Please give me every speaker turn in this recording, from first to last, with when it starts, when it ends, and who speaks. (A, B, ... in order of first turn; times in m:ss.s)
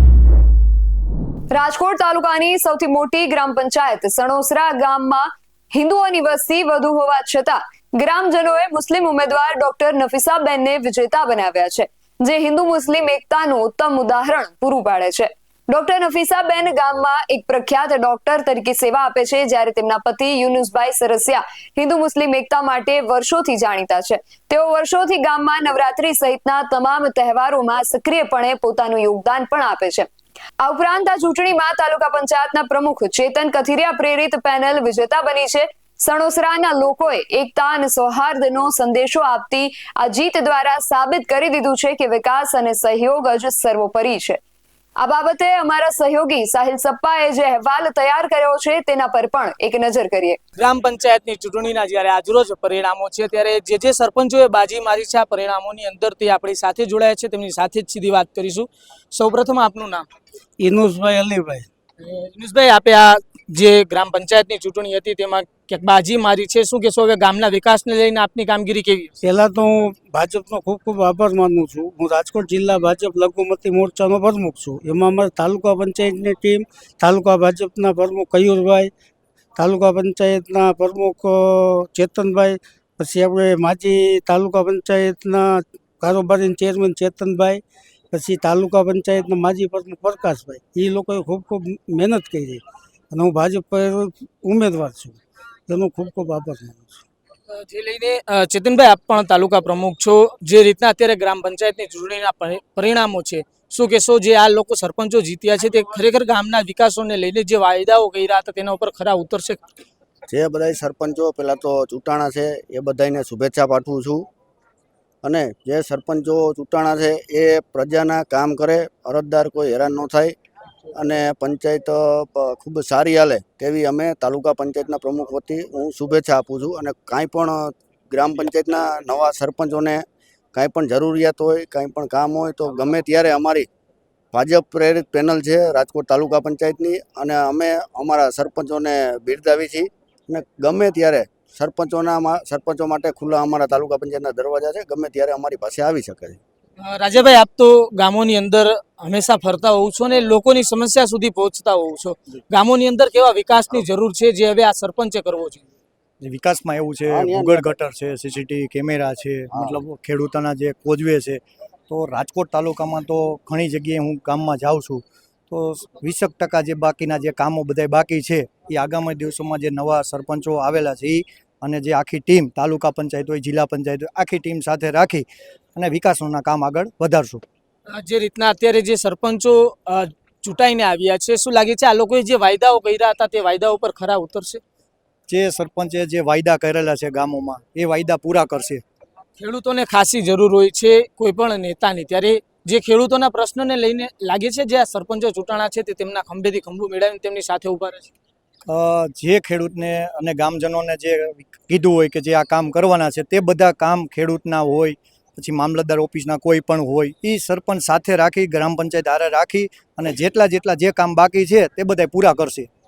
0:01.5-0:30.1 A
0:30.6-0:44.4 A
0:45.0-0:50.4 A
0:50.6-1:00.1 B
1:00.6-1:01.7 C
1:02.0-1:09.2 B
1:09.2-1:18.9 C
1:19.6-1:37.0 C
1:37.5-1:49.6 B
1:50.3-1:54.3 D
1:55.2-2:00.4 D
2:00.9-2:13.7 D
2:14.3-2:26.4 D
2:26.8-2:35.6 B
2:36.2-2:55.2 E
2:37.1-2:37.8 D
2:55.8-2:57.4 E
2:57.9-3:04.6 B
3:05.3-3:08.8 E
3:09.4-3:18.1 B
3:18.7-3:32.7 E